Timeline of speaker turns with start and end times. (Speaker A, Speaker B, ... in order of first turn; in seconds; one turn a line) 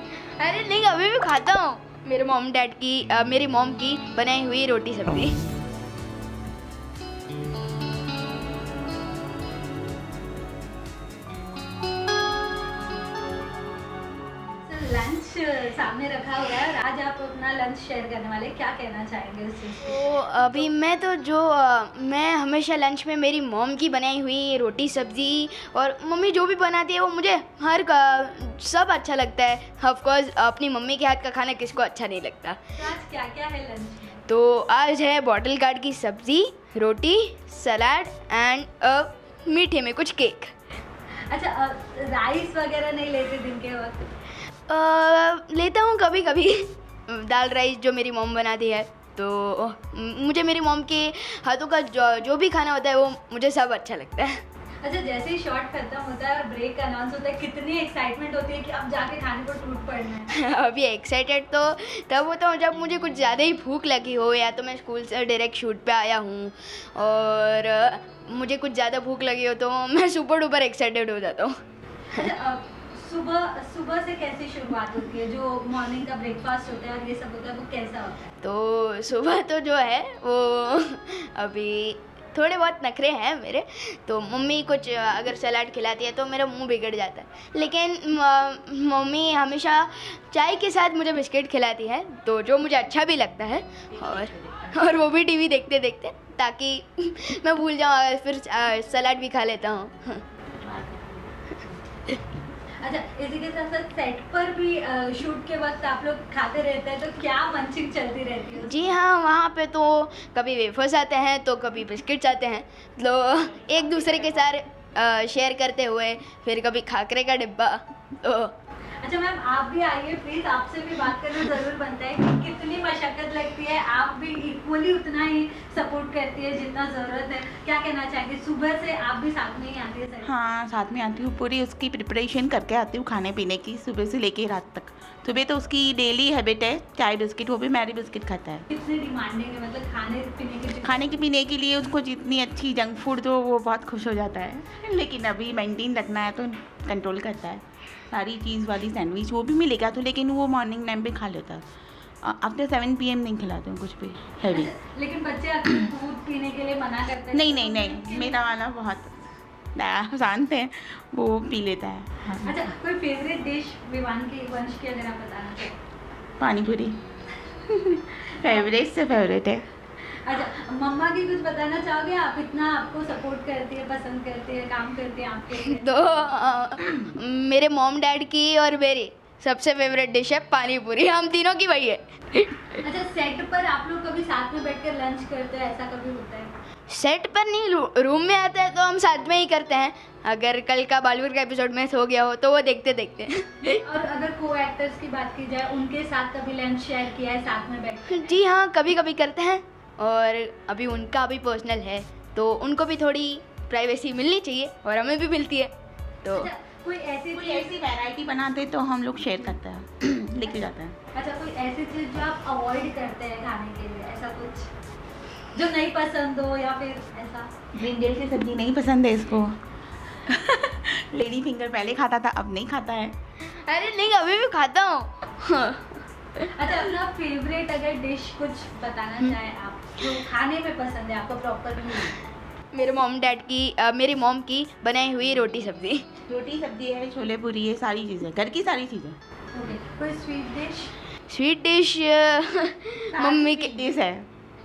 Speaker A: 0.4-5.4
Speaker B: 14.7-20.7
Speaker A: 19.8-32.7
Speaker B: 32.8-34.2
Speaker A: 34.3-40.5
Speaker B: 41.3-44.0
Speaker A: 44.7-54.4
Speaker B: 54.8-60.3
Speaker A: 60.3-71.6
Speaker B: 72.1-78.3
Speaker A: 78.4-100.2
Speaker C: 100.5-101.1
Speaker B: 102.8-108.9
Speaker A: 108.6-118.5
Speaker B: 119.0-130.3
Speaker C: 130.2-138.7
Speaker B: 138.7-141.1
Speaker C: 140.8-151.7
Speaker C: 152.2-154.7
Speaker B: 154.5-158.5
Speaker C: 157.3-162.4
Speaker B: 162.3-165.8
Speaker C: 166.4-167.0
Speaker C: 167.6-169.6
Speaker B: 168.4-168.8
Speaker B: 170.2-176.3
Speaker A: 175.5-182.8
Speaker B: 182.8-186.5
Speaker A: 186.9-193.8
Speaker B: 193.8-198.3
Speaker A: 198.1-205.7
Speaker A: 206.2-206.5
Speaker B: 206.3-208.0
Speaker C: 207.3-210.9
Speaker B: 211.1-214.7
Speaker B: 215.5-217.5
Speaker C: 217.7-219.6
Speaker C: 220.2-223.2
Speaker A: 223.4-226.7
Speaker B: 226.5-232.2
Speaker A: 232.7-236.1
Speaker C: 236.3-239.2
Speaker B: 239.5-240.9
Speaker A: 241.3-243.8
Speaker C: 243.1-244.3